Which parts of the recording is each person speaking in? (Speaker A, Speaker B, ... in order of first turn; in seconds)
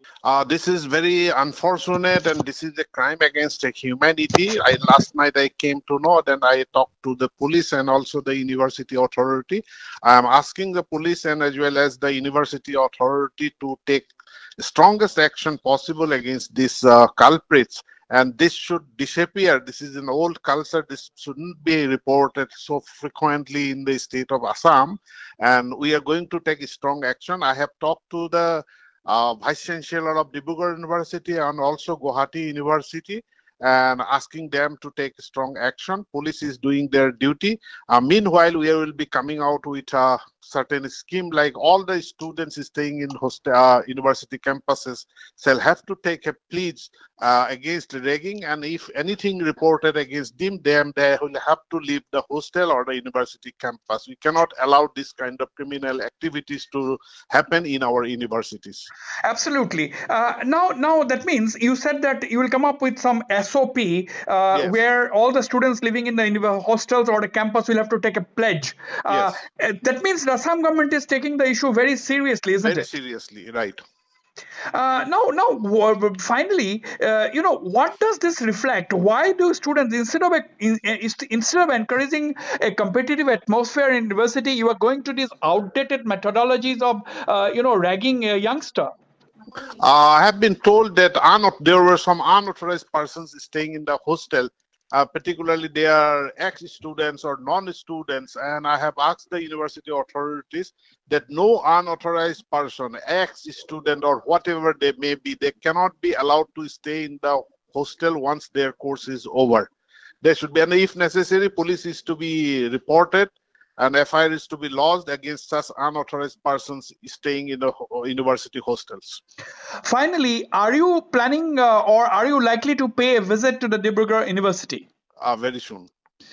Speaker A: 0.2-58.9, 64.5-64.8, 69.1-69.4, 72.6-73.8, 89.7-109.7, 110.2-119.2, 125.2-125.9
Speaker B: 59.2-72.9, 74.7-88.9, 119.8-124.9